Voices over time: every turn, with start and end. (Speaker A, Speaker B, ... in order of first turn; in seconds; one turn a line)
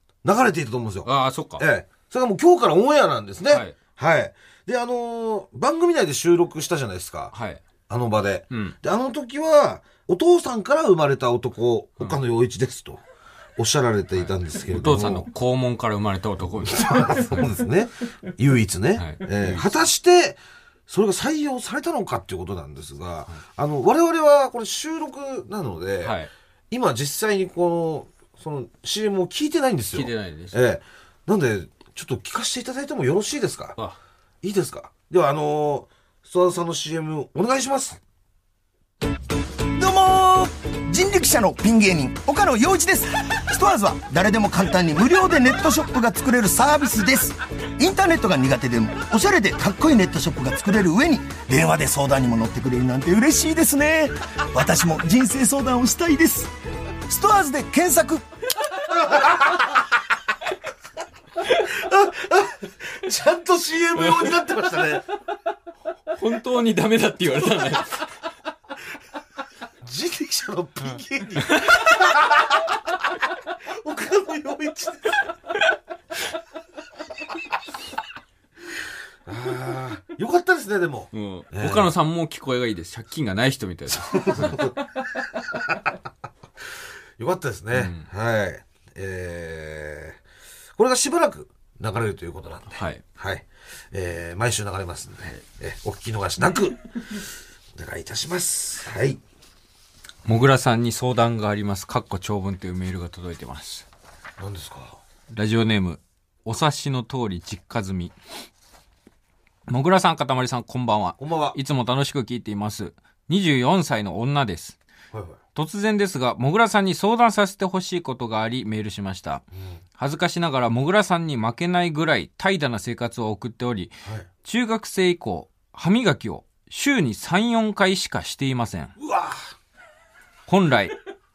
Speaker A: 0.2-7.3
Speaker B: 1.0-1.6
Speaker B: 3.5-3.8
Speaker B: 7.3-7.6
Speaker A: 7.9-13.0
Speaker A: 13.6-15.3
Speaker B: 14.7-17.4
Speaker A: 16.6-26.2
Speaker B: 19.0-19.6
Speaker B: 26.0-26.3
Speaker A: 26.7-33.8
Speaker B: 29.9-30.6
Speaker A: 34.4-38.0
Speaker C: 39.7-56.5
Speaker C: 57.0-58.2
Speaker A: 58.9-59.8
Speaker A: 61.5-65.0
Speaker B: 66.1-68.1
Speaker A: 69.8-72.9
Speaker B: 71.5-71.9
Speaker A: 73.6-75.2
Speaker A: 79.2-81.9
Speaker B: 81.1-84.7
Speaker A: 84.0-84.7
Speaker A: 85.5-85.8
Speaker A: 87.2-90.2
Speaker B: 87.7-88.1
Speaker A: 90.8-97.2
Speaker B: 92.7-93.0
Speaker A: 97.8-99.2
Speaker B: 100.2-103.8
Speaker A: 104.4-105.0
Speaker B: 105.3-108.1
Speaker B: 109.7-114.8
Speaker A: 111.2-111.5
Speaker A: 115.1-115.4
Speaker B: 115.5-119.4
Speaker B: 120.0-128.9
Speaker A: 129.0-129.5
Speaker B: 130.5-131.0